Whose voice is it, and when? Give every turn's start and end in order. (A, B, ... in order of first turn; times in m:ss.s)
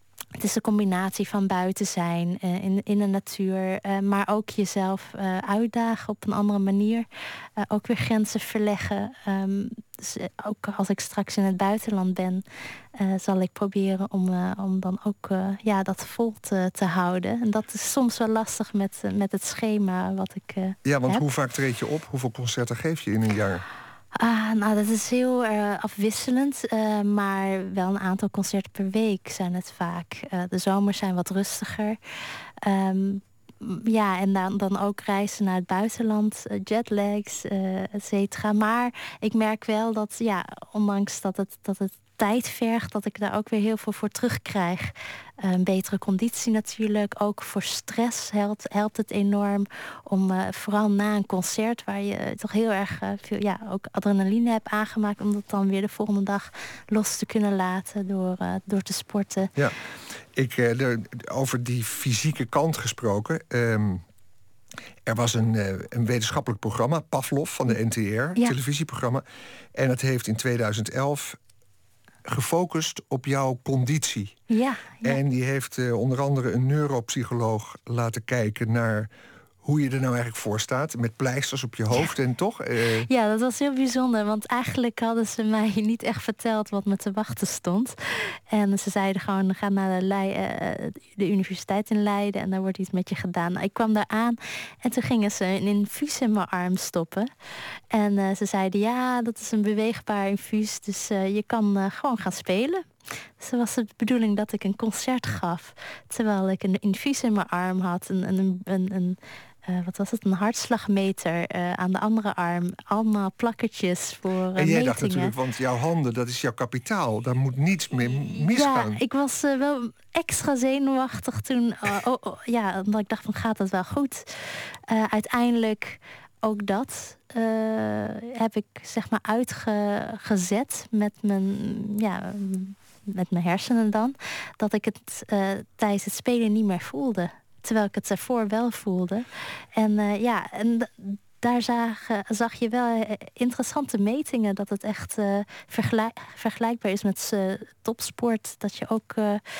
0:00.4-0:07.0 A
0:07.6-0:12.4 A
0:13.0-0:21.2 A
0:20.8-0:23.6 B
0:24.1-0:32.0 A
0:32.6-0:59.5 A
1:00.4-1:04.0 B
1:05.1-1:09.2 B
1:09.7-1:11.4 B
1:12.2-1:14.4 B
1:14.5-1:15.2 A
1:15.0-1:19.1 B
1:19.6-1:23.1 B
1:23.1-1:37.3 A
1:37.9-1:42.8 A
1:43.4-1:55.3 A
1:54.6-1:59.0 B
1:58.4-2:29.4 A